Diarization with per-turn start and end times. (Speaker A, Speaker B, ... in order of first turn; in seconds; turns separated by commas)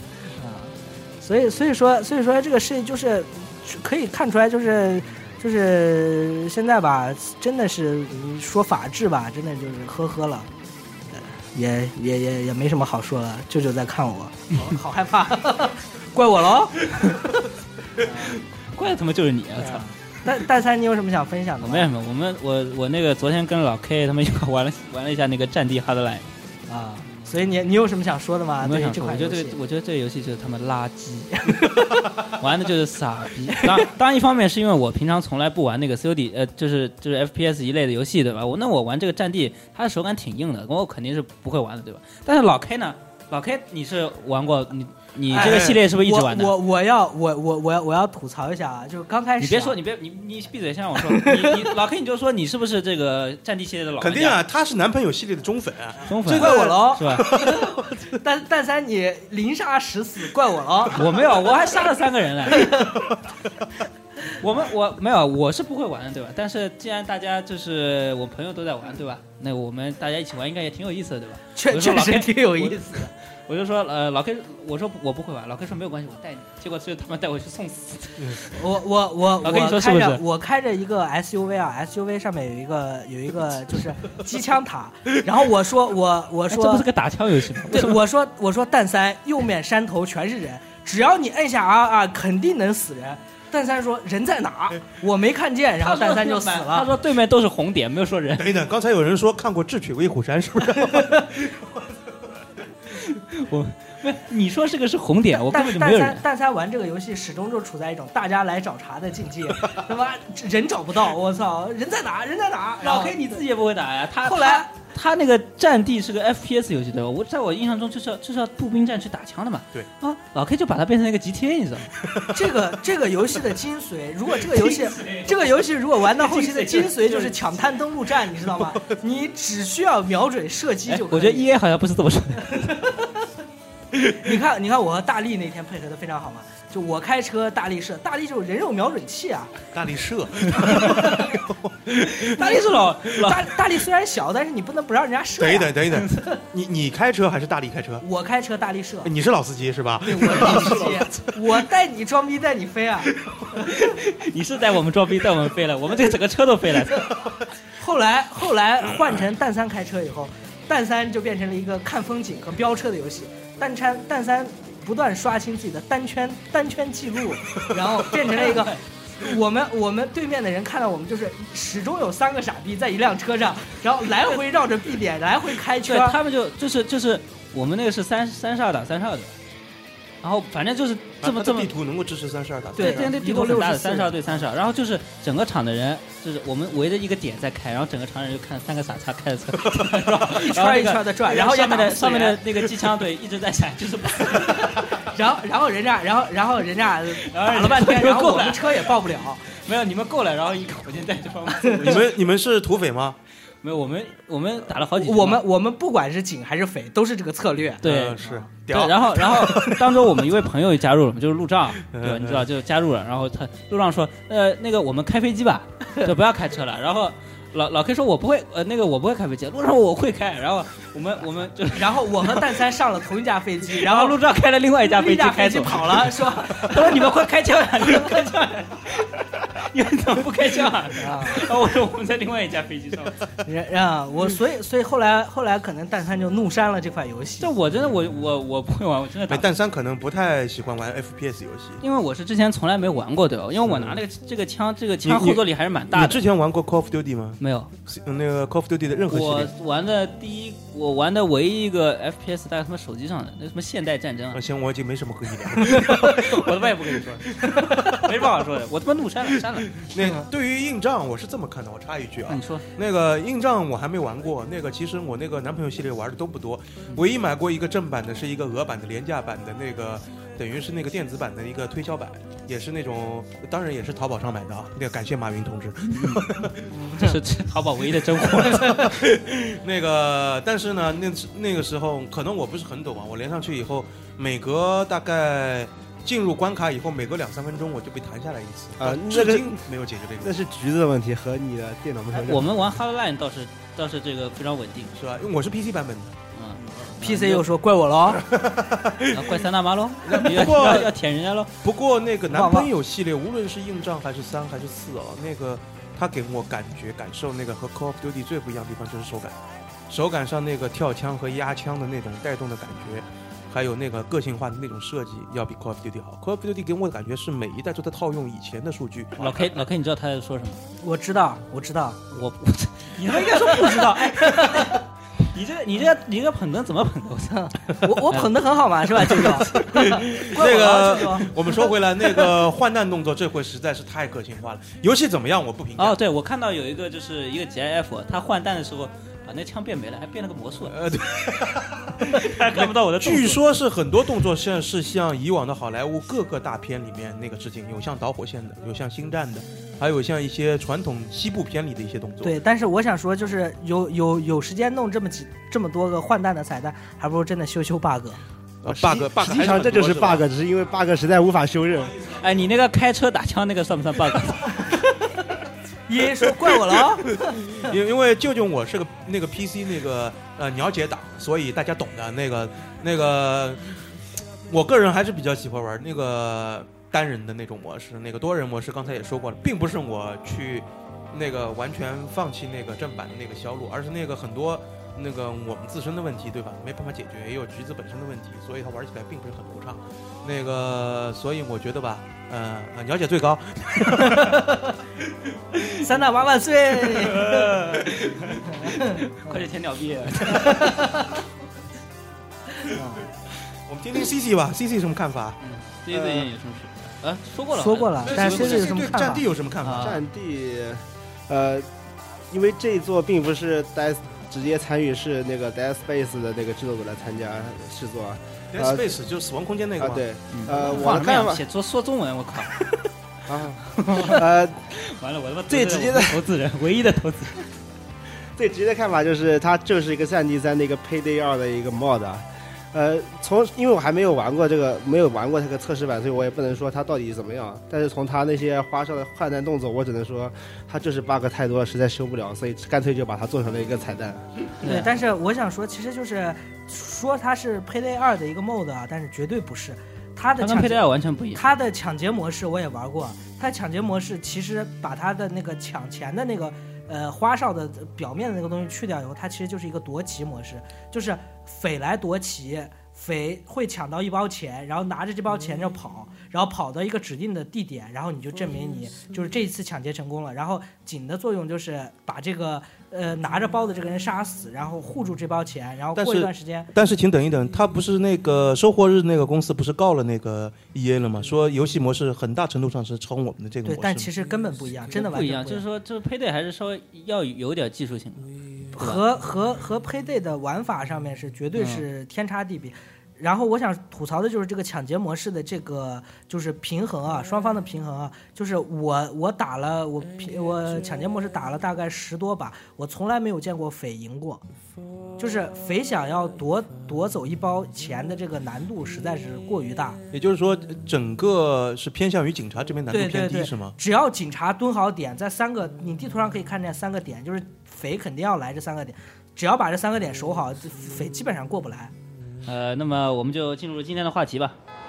Speaker A: 0.4-10.5, Speaker A: 11.1-17.4, Speaker A: 18.0-18.4, Speaker B: 18.7-19.9, Speaker A: 19.6-21.9, Speaker B: 21.6-26.3, Speaker A: 26.7-29.6, Speaker B: 28.6-31.5, Speaker A: 31.4-32.3, Speaker B: 32.3-46.6, Speaker A: 33.5-33.9, Speaker A: 45.3-49.8, Speaker C: 45.3-45.8, Speaker B: 49.4-54.4, Speaker A: 51.0-51.7, Speaker C: 54.0-58.0, Speaker B: 56.1-57.2, Speaker A: 56.3-61.1, Speaker B: 61.0-62.7, Speaker A: 62.5-63.1, Speaker B: 64.4-73.0, Speaker A: 71.6-73.1, Speaker B: 73.5-78.6, Speaker A: 78.5-86.9, Speaker B: 79.4-80.2, Speaker B: 86.5-88.0, Speaker A: 87.7-96.9, Speaker B: 95.8-98.5, Speaker C: 98.4-101.8, Speaker A: 100.9-101.2, Speaker B: 102.9-106.2, Speaker A: 105.4-113.4, Speaker B: 112.8-121.9, Speaker A: 114.2-114.7, Speaker A: 122.3-131.5, Speaker B: 124.5-127.6, Speaker B: 130.9-132.7, Speaker A: 132.5-133.1, Speaker A: 134.1-139.6, Speaker C: 139.7-141.8, Speaker B: 140.7-141.1, Speaker A: 140.7-141.4, Speaker B: 142.0-143.5, Speaker A: 142.4-146.0, Speaker C: 145.4-148.1, Speaker B: 145.9-146.3, Speaker A: 148.0-149.1, Speaker C: 149.0-151.6, Speaker A: 150.1-153.6, Speaker B: 153.6-157.1, Speaker A: 157.8-176.2, Speaker B: 175.8-179.3, Speaker B: 180.2-181.7, Speaker C: 181.2-183.1, Speaker A: 182.8-184.4, Speaker B: 182.8-194.8, Speaker C: 189.7-190.0, Speaker A: 190.3-192.4, Speaker A: 194.7-199.5, Speaker B: 197.2-198.9, Speaker B: 199.5-202.0, Speaker A: 201.6-202.0, Speaker C: 201.8-203.2, Speaker B: 203.6-205.4, Speaker A: 205.0-208.5, Speaker C: 207.8-209.9, Speaker B: 207.8-222.4, Speaker C: 211.9-212.5, Speaker A: 221.7-224.2, Speaker B: 223.7-233.2, Speaker A: 224.8-227.1, Speaker A: 231.0-231.5, Speaker A: 233.4-237.5, Speaker B: 237.4-239.5, Speaker C: 239.3-241.8, Speaker B: 241.8-246.2, Speaker C: 243.6-244.0, Speaker C: 245.0-249.5, Speaker B: 247.4-247.7, Speaker B: 249.1-254.4, Speaker C: 254.3-256.7, Speaker A: 255.6-256.1, Speaker B: 256.0-257.3, Speaker C: 257.3-258.0, Speaker A: 257.5-258.0, Speaker B: 258.0-259.7, Speaker C: 259.7-276.6, Speaker A: 260.0-260.2, Speaker B: 262.3-262.7, Speaker B: 275.9-276.3, Speaker A: 276.7-277.2, Speaker B: 277.0-278.9, Speaker A: 278.5-278.9, Speaker C: 278.5-290.3, Speaker D: 288.8-289.6, Speaker D: 290.2-292.5, Speaker B: 292.1-294.9, Speaker C: 294.9-296.1, Speaker B: 296.3-297.5, Speaker A: 296.9-298.2, Speaker C: 298.2-299.4, Speaker B: 299.1-301.5, Speaker C: 300.1-300.9, Speaker C: 301.6-309.4, Speaker A: 302.3-302.7, Speaker C: 309.9-319.6, Speaker B: 319.2-320.6, Speaker A: 320.8-322.0, Speaker B: 322.1-327.5, Speaker A: 323.1-324.8, Speaker A: 327.4-331.6, Speaker B: 328.1-328.4, Speaker B: 329.0-329.7, Speaker C: 329.7-336.0, Speaker B: 335.8-340.8, Speaker C: 340.7-352.4, Speaker B: 342.0-343.4, Speaker A: 352.2-358.2, Speaker C: 358.6-360.2, Speaker D: 358.9-362.0, Speaker B: 362.1-364.6, Speaker A: 364.6-365.0, Speaker A: 365.9-367.7, Speaker C: 366.8-373.8, Speaker C: 374.5-394.5, Speaker A: 393.8-394.8, Speaker A: 395.8-397.6, Speaker B: 396.8-400.8, Speaker A: 398.5-399.4, Speaker A: 400.3-401.2, Speaker A: 402.6-403.1, Speaker C: 403.7-405.4, Speaker B: 405.4-408.9, Speaker D: 405.9-406.3, Speaker A: 407.5-409.2, Speaker C: 408.0-410.0, Speaker B: 409.6-410.0, Speaker D: 409.8-411.7, Speaker D: 412.3-418.9, Speaker C: 418.5-420.7, Speaker D: 419.8-421.4, Speaker B: 420.3-422.6, Speaker D: 423.3-424.6, Speaker B: 423.7-427.5, Speaker D: 425.5-426.2, Speaker D: 428.4-444.2, Speaker B: 444.6-444.9, Speaker A: 444.6-450.8, Speaker B: 450.4-451.4, Speaker A: 451.3-476.7, Speaker C: 475.9-484.1, Speaker A: 483.7-485.6, Speaker B: 484.9-489.0, Speaker A: 488.8-504.4, Speaker B: 491.6-491.9, Speaker A: 505.2-510.0, Speaker C: 510.1-513.8, Speaker A: 512.9-521.9, Speaker B: 522.5-524.6